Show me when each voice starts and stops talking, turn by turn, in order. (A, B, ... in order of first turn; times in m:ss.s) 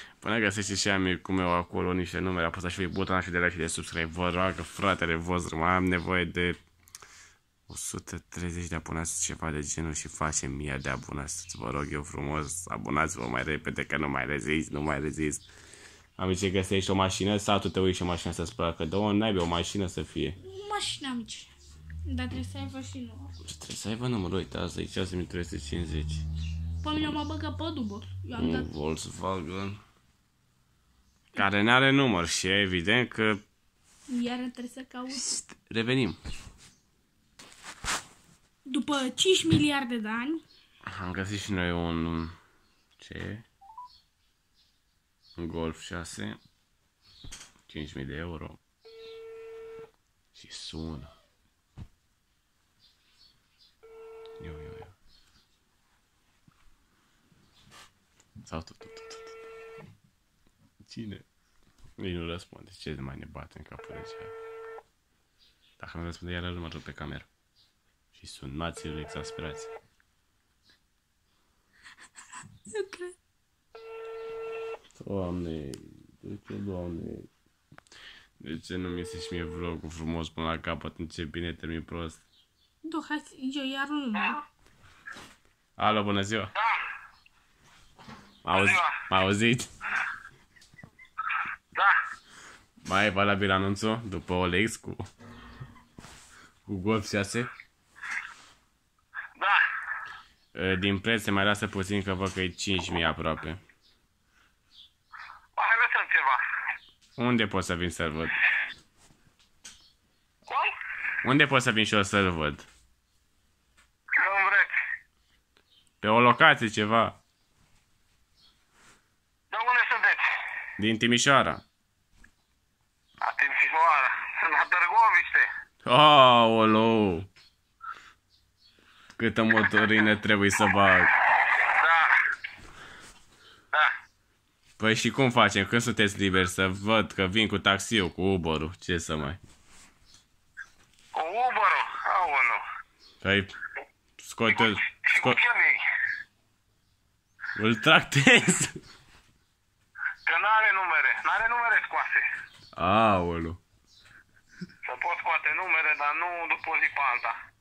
0:00.2-0:06.6 A
0:07.7-0:15.4 A
0:16.2-0:20.4 A
0:20.4-0:21.5 B
0:22.0-0:23.3 B
0:23.4-0:26.2 A
0:26.8-0:28.7 B
0:28.4-0:29.8 A
0:31.4-0:33.4 A
0:34.1-0:35.2 B
0:35.1-0:36.2 A
0:38.7-0:40.4 B
0:40.9-0:42.4 A
0:43.0-0:43.5 A
0:45.4-0:46.4 A
0:47.7-0:48.6 A
0:50.3-0:51.1 A
0:54.4-0:54.9 A
0:58.4-0:59.4 A
1:00.9-1:01.2 A
1:02.0-1:04.3 A
1:05.8-1:07.3 A
1:08.2-1:09.7 A
1:12.7-1:13.1 B
1:15.0-1:17.3 A
1:18.4-1:22.2 A
1:22.8-1:24.4 B
1:25.8-1:26.5 A
1:26.6-1:26.8 C
1:28.4-1:29.7 A
1:28.5-1:29.0 C
1:32.8-1:35.1 A
1:36.7-1:37.5 A
1:39.4-1:39.6 C
1:40.5-1:43.6 A
1:45.6-1:46.4 C
1:47.2-1:48.3 A
1:51.2-1:52.7 A
1:54.2-1:54.8 C
1:56.0-1:57.2 A
1:59.5-2:00.2 C
2:00.8-2:01.6 A
2:03.2-2:05.5 C
2:05.8-2:07.3 A
2:09.2-2:11.1 A
2:11.6-2:12.2 C
2:14.8-2:19.4 A
2:21.1-2:22.6 C
2:23.2-2:23.5 A
2:24.2-2:25.4 A
2:24.5-2:25.8 C
2:27.6-2:28.8 A
2:30.3-2:32.2 C
2:32.8-2:33.6 A
2:34.8-2:37.4 C